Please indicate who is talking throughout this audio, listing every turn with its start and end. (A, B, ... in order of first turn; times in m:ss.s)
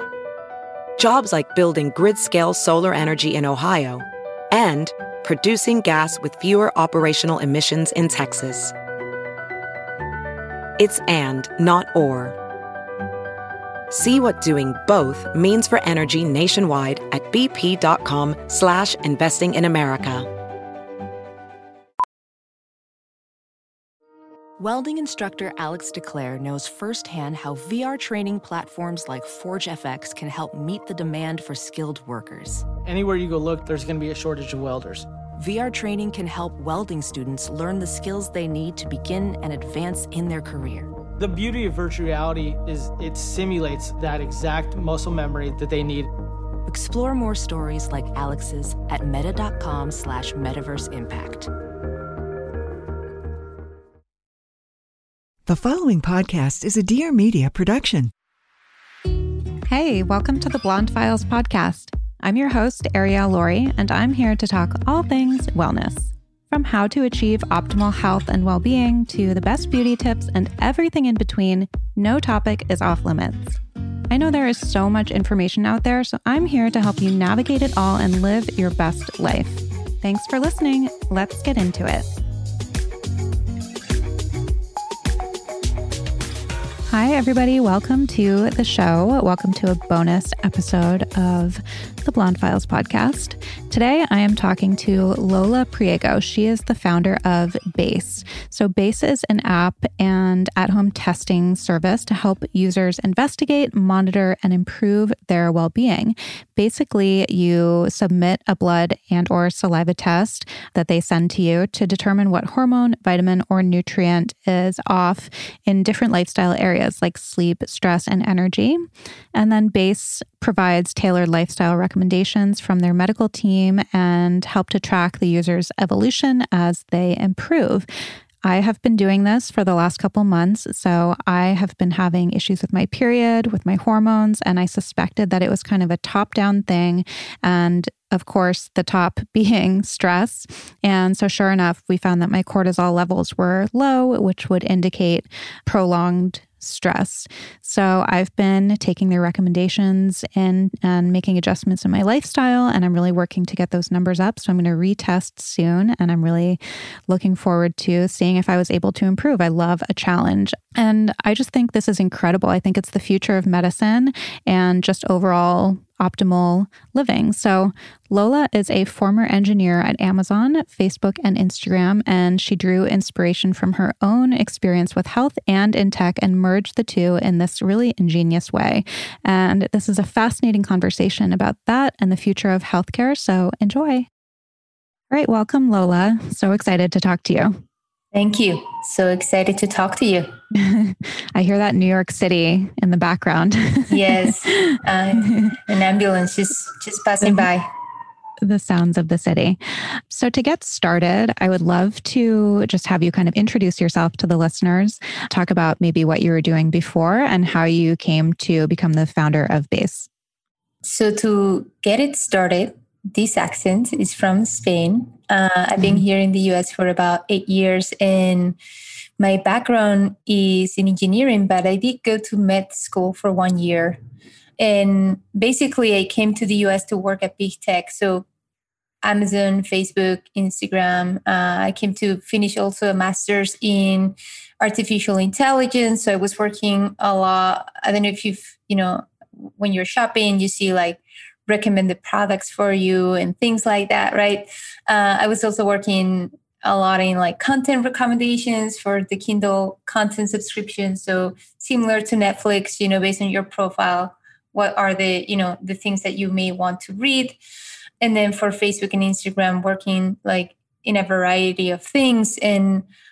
0:01.0-0:08.7 A
0:10.8-0:12.4 A
0:13.9-0:20.3 A
0:24.6-0:32.6 B
0:32.8-0:35.1 C
0:35.4-0:40.9 B
0:41.2-0:46.1 C
0:46.6-0:51.5 B
0:55.4-0:58.1 D
0:59.7-1:13.6 E
1:14.1-1:22.2 E
1:26.9-1:58.8 E
1:59.3-2:07.9 E
2:08.4-3:04.1 E
3:05.1-3:07.6 E
3:08.1-3:10.3 F
3:10.5-3:14.3 E
3:13.9-3:17.7 F
3:18.4-3:30.1 E
3:30.8-3:38.6 F
3:39.2-3:44.0 F
3:44.6-3:48.2 F
3:49.0-4:17.4 F
4:18.0-4:22.8 F